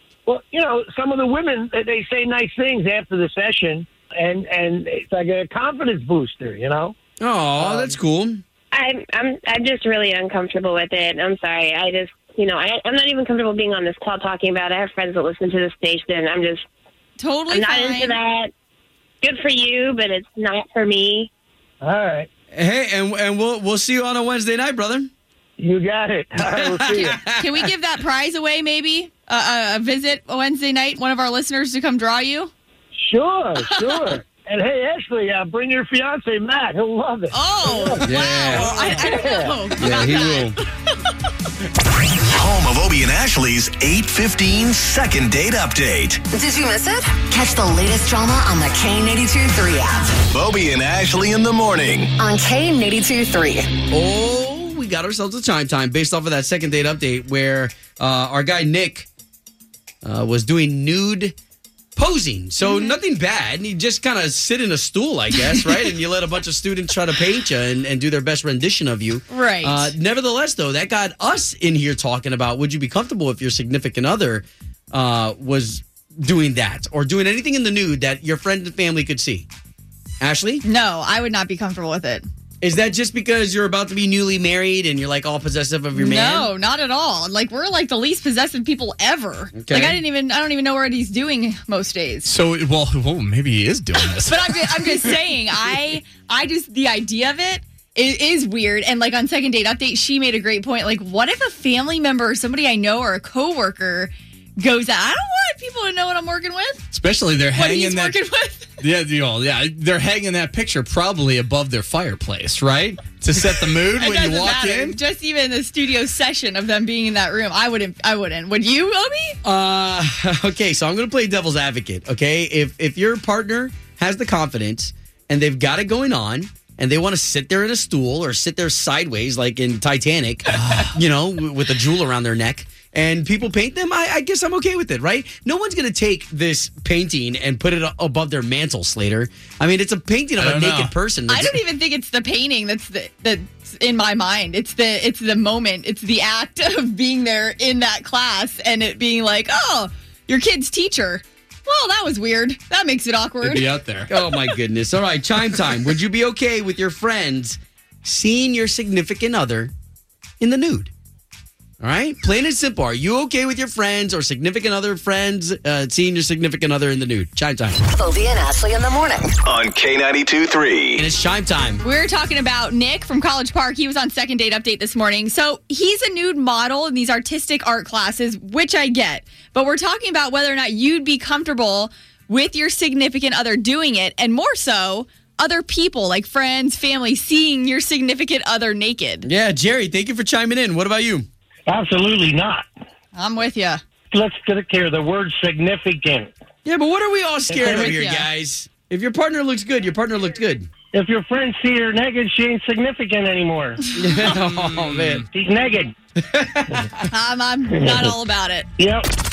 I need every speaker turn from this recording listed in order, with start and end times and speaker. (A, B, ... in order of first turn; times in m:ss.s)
0:00.3-0:07.0 A
0:07.2-0:08.4 B
0:07.6-0:08.0 A
0:08.7-0:16.6 C
0:17.2-0:18.2 D
0:17.5-0:18.5 C
0:19.2-0:21.3 C
0:21.8-0:22.3 A
0:22.5-0:25.1 B
0:25.6-0:27.2 A
0:26.4-0:27.7 B
0:27.4-0:32.5 D
0:33.0-0:39.7 A
0:33.7-0:34.2 D
0:37.3-0:41.1 D
0:38.0-0:38.7 B
0:39.8-0:40.6 B
0:42.2-0:46.2 E
0:46.3-0:50.2 F
0:50.3-0:52.1 E
0:52.2-0:53.7 F
0:53.9-0:59.1 B
1:00.0-1:01.4 B
1:02.0-1:19.5 B
1:02.6-1:03.0 D
1:09.3-1:09.9 D
1:20.2-1:20.6 B
1:20.6-1:22.2 D
1:22.6-1:26.5 B
1:26.0-1:32.3 D
1:29.5-1:30.0 B
1:32.3-1:35.0 G
1:34.0-1:46.8 D
1:46.9-1:48.2 G
1:47.5-1:48.7 D
1:48.8-1:55.0 G
1:54.0-1:59.4 D
1:59.4-2:21.6 B
2:10.6-2:10.9 G
2:20.4-2:20.9 G
2:21.3-2:33.6 D
2:33.4-2:34.1 G
2:34.1-2:39.7 B
2:40.4-2:40.9 B
2:41.8-2:47.8 B
2:47.9-2:49.4 F
2:49.4-2:51.0 E
2:51.0-2:51.8 B
2:51.8-3:09.3 D
3:09.2-3:11.3 B
3:11.7-3:12.7 A
3:13.2-3:13.8 D
3:14.1-3:16.3 A
3:16.6-3:20.7 B
3:17.5-3:17.8 A
3:17.5-3:18.3 D
3:20.9-3:23.8 A
3:24.0-3:25.3 B
3:24.7-3:25.2 G
3:25.3-3:25.9 A
3:26.2-3:27.0 B
3:27.1-3:28.7 D
3:28.8-3:29.0 A